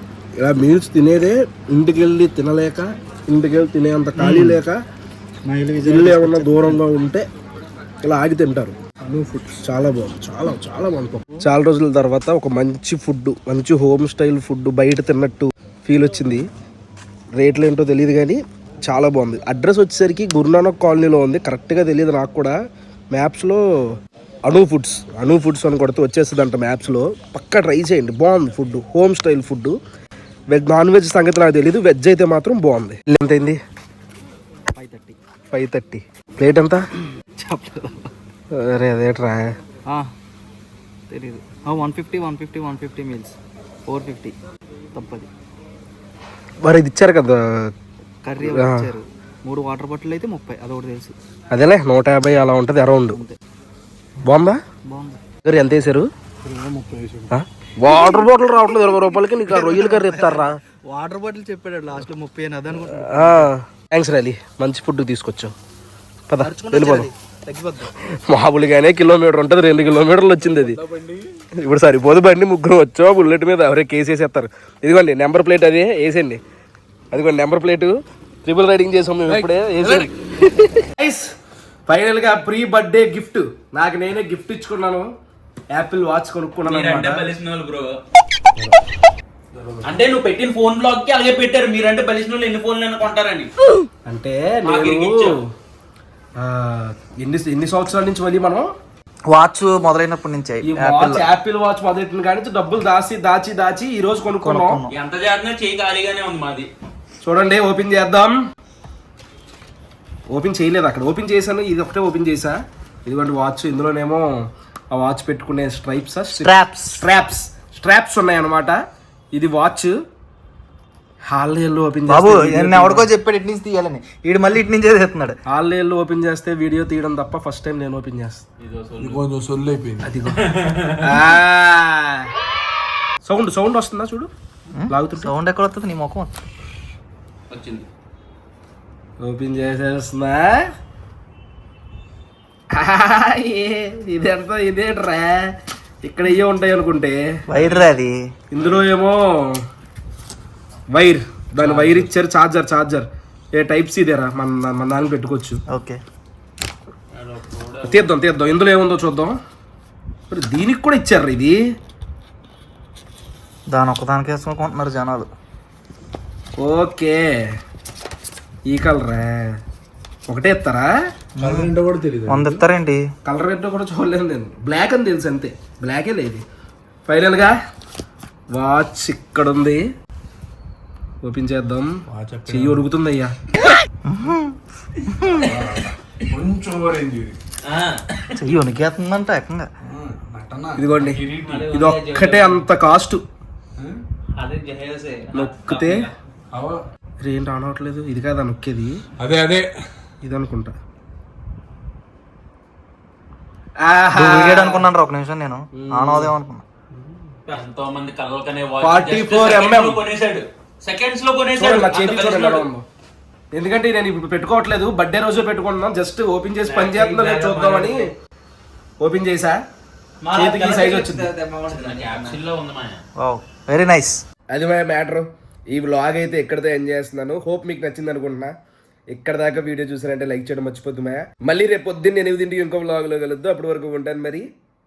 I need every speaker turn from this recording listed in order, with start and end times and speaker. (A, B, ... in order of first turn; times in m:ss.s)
0:00.4-0:04.8 A
0:04.2-0:04.6 B
0:05.4-0:06.8 B
0:05.8-0:07.2 A
0:08.0-0:16.4 A
0:17.4-0:22.5 A
0:23.1-0:23.6 A
0:24.5-0:29.8 A
0:30.5-0:33.6 A
0:34.8-0:35.2 B
0:35.5-0:36.8 A
0:37.4-0:38.1 B
0:38.6-0:39.4 A
0:41.1-0:44.4 B
0:44.9-0:45.3 B
0:46.6-0:47.4 A
0:48.2-0:51.1 B
0:48.4-0:48.9 A
0:51.5-0:53.2 A
0:53.1-0:53.4 B
0:54.3-0:54.6 A
0:54.9-0:55.2 B
0:55.4-0:56.1 A
0:56.5-0:57.3 C
0:56.6-0:57.3 B
0:57.3-1:00.6 A
0:59.5-1:03.5 B
1:02.8-1:05.5 A
1:06.3-1:07.1 A
1:06.4-1:07.9 B
1:08.2-1:10.8 A
1:10.4-1:11.3 C
1:11.6-1:16.4 A
1:17.1-1:21.3 A
1:19.3-1:20.1 C
1:21.9-1:25.1 A
1:25.8-1:27.3 A
1:26.6-1:27.9 D
1:29.5-1:30.0 C
1:29.8-1:33.5 D
1:34.1-1:35.3 A
1:34.6-1:35.4 D
1:36.4-1:38.7 A
1:39.3-1:41.3 B
1:40.6-1:44.8 A
1:44.4-1:44.9 B
1:44.9-1:46.7 D
1:47.2-1:48.3 A
1:50.3-1:54.3 A
1:54.9-1:58.8 A
1:56.3-1:57.0 B
1:59.4-1:59.9 A
2:01.3-2:03.1 A
2:02.1-2:05.4 B
2:05.5-2:08.4 A
2:08.6-2:09.3 D
2:09.0-2:10.0 C
2:10.0-2:10.4 A
2:10.3-2:11.3 D
2:11.0-2:12.3 A
2:13.2-2:14.3 A
2:14.7-2:16.5 B
2:14.9-2:15.3 A
2:17.5-2:17.9 D
2:19.2-2:20.6 A
2:22.8-2:25.5 A
2:26.0-2:27.2 A
2:27.5-2:28.2 B
2:27.5-2:27.9 D
2:28.5-2:29.6 A
2:31.0-2:35.6 A
2:35.7-2:36.0 B
2:37.1-2:38.1 D
2:37.9-2:39.3 A
2:40.3-2:41.6 A
2:43.7-2:45.3 B
2:46.6-2:47.2 A
2:48.7-2:49.6 A
2:50.3-2:50.9 A
2:51.4-2:51.7 B
2:51.4-2:52.6 C
2:52.3-2:53.1 B
2:53.2-2:56.4 A
2:57.1-2:57.5 A
2:58.6-2:59.8 A
3:01.2-3:01.9 A
3:02.1-3:02.9 C
3:02.5-3:03.3 A
3:04.0-3:05.7 B
3:05.4-3:05.8 D
3:05.4-3:07.4 C
3:07.7-3:08.2 D
3:08.3-3:09.7 B
3:09.8-3:11.7 C
3:10.8-3:13.2 A
3:11.4-3:12.7 D
3:14.4-3:16.1 D
3:15.3-3:16.1 A
3:16.5-3:16.8 C
3:17.2-3:19.0 A
3:19.2-3:19.7 C
3:20.2-3:20.7 A
3:23.8-3:24.9 A
3:24.2-3:26.6 B
3:25.8-3:26.3 A
3:27.5-3:32.7 D
3:28.8-3:30.0 A
3:31.6-3:32.8 A
3:33.5-3:38.1 A
3:36.6-3:38.1 D
3:39.0-3:39.6 A
3:40.2-3:42.4 B
3:40.3-3:41.3 A
3:41.7-3:43.0 D
3:43.2-3:44.2 B
3:44.5-3:48.5 A
3:49.1-3:54.5 A